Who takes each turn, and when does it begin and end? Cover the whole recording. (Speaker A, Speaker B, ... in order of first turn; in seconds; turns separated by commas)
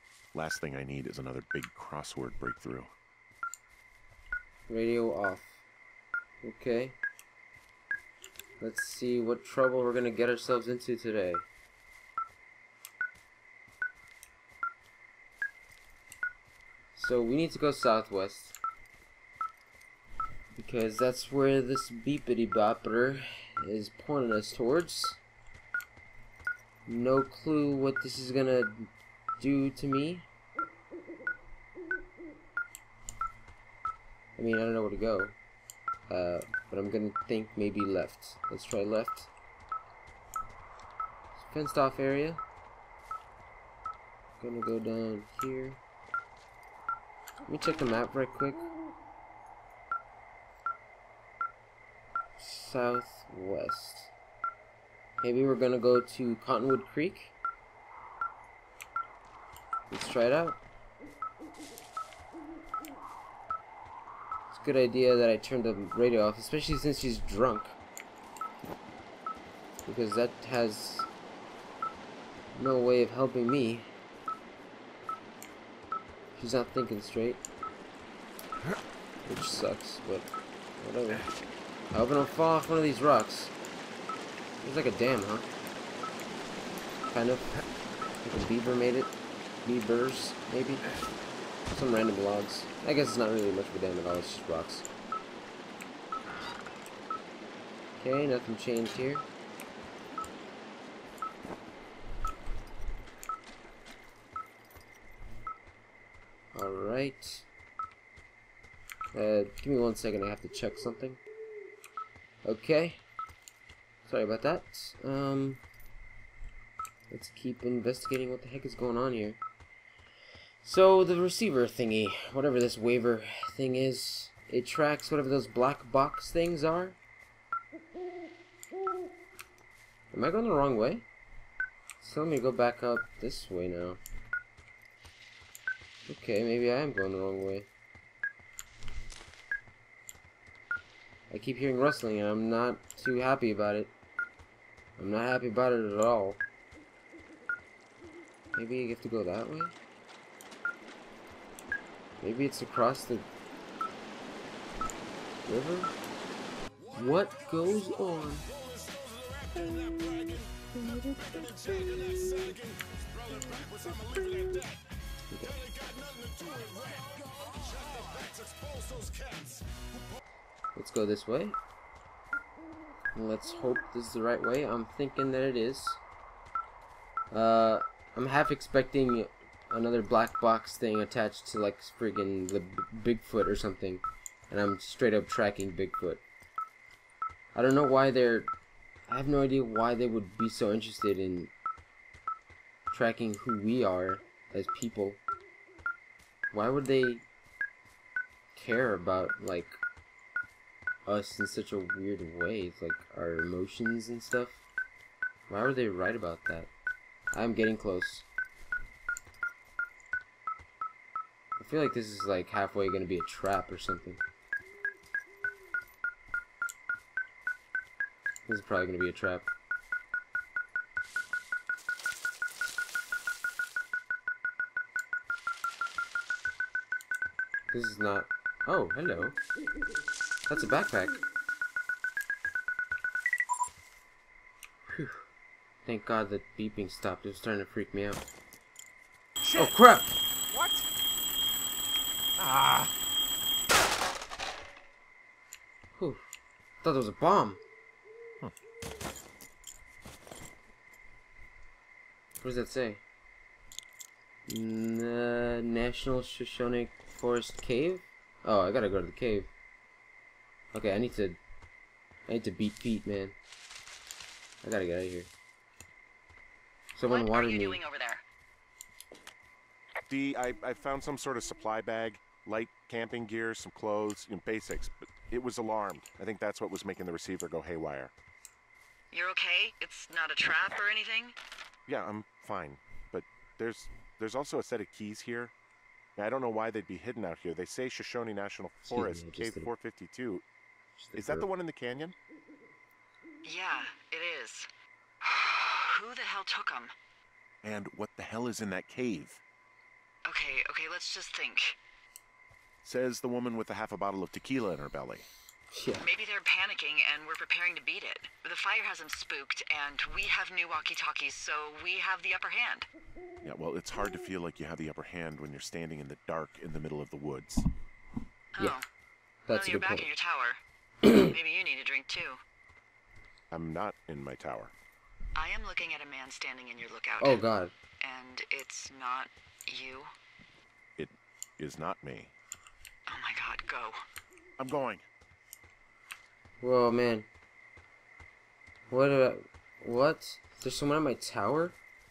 Speaker A: 0.3-2.9, Speaker B: 4.7-5.5, Speaker B: 6.4-7.0, Speaker B: 8.6-11.5, Speaker B: 16.9-18.6, Speaker B: 20.6-25.2, Speaker B: 26.9-30.3, Speaker B: 34.4-35.3, Speaker B: 36.1-39.3, Speaker B: 41.4-42.4, Speaker B: 44.4-45.8, Speaker B: 47.5-48.7, Speaker B: 52.4-54.1, Speaker B: 55.2-57.3, Speaker B: 59.9-60.6, Speaker B: 64.5-67.8, Speaker B: 69.8-71.1, Speaker B: 72.5-73.9, Speaker B: 76.4-77.4, Speaker B: 79.2-80.3, Speaker B: 80.8-81.2, Speaker B: 81.9-83.5, Speaker B: 84.6-85.5, Speaker B: 87.1-87.5, Speaker B: 88.2-89.1, Speaker B: 89.6-90.9, Speaker B: 91.7-94.8, Speaker B: 98.0-99.2, Speaker B: 106.5-107.5, Speaker B: 109.1-111.2, Speaker B: 112.5-113.0, Speaker B: 114.1-115.6, Speaker B: 117.1-119.4, Speaker B: 120.6-127.0, Speaker B: 130.1-131.0, Speaker B: 132.0-134.0, Speaker B: 136.1-137.7, Speaker B: 141.3-143.9, Speaker B: 145.0-146.4, Speaker B: 148.5-149.7, Speaker B: 152.2-153.3, Speaker B: 155.5-155.9, Speaker B: 156.9-158.5, Speaker A: 158.8-160.5, Speaker A: 161.3-164.7, Speaker B: 165.3-165.6, Speaker A: 165.7-169.6, Speaker B: 170.7-171.6, Speaker B: 173.2-176.0, Speaker B: 177.3-186.2, Speaker B: 187.5-188.5, Speaker B: 189.1-191.5, Speaker B: 192.9-195.2, Speaker B: 196.5-197.2, Speaker B: 198.5-199.8, Speaker B: 201.1-204.6, Speaker B: 205.5-206.7, Speaker B: 207.3-208.3, Speaker B: 211.6-214.2, Speaker B: 218.5-219.5, Speaker B: 227.7-229.4, Speaker B: 230.5-231.2, Speaker B: 234.9-235.2, Speaker B: 235.8-238.2, Speaker A: 239.4-239.7, Speaker B: 239.6-240.2, Speaker A: 240.5-240.8, Speaker A: 242.4-242.9, Speaker B: 246.0-246.2, Speaker B: 246.8-247.6, Speaker B: 252.4-253.0, Speaker B: 254.5-259.5, Speaker B: 260.7-261.4, Speaker B: 262.3-263.4, Speaker B: 264.6-265.3, Speaker B: 267.0-267.8, Speaker C: 267.1-268.2, Speaker A: 270.1-278.1, Speaker C: 279.1-281.4, Speaker A: 281.9-285.5, Speaker A: 286.2-290.4, Speaker B: 288.9-289.7, Speaker B: 291.0-291.5, Speaker A: 291.1-292.1, Speaker C: 293.4-294.7, Speaker C: 295.2-296.9, Speaker A: 297.6-299.4, Speaker C: 300.2-301.8, Speaker A: 302.8-305.2, Speaker B: 305.7-306.1, Speaker C: 306.0-312.9, Speaker A: 313.4-317.7, Speaker C: 318.6-318.8, Speaker B: 319.5-320.1, Speaker C: 319.5-320.6, Speaker B: 321.0-321.3, Speaker C: 321.2-322.4, Speaker A: 323.5-324.7, Speaker C: 325.4-327.4, Speaker B: 327.2-327.7, Speaker C: 328.0-330.1, Speaker A: 331.0-332.3, Speaker C: 333.1-334.0, Speaker A: 334.6-335.0, Speaker B: 336.6-337.3, Speaker B: 338.9-341.8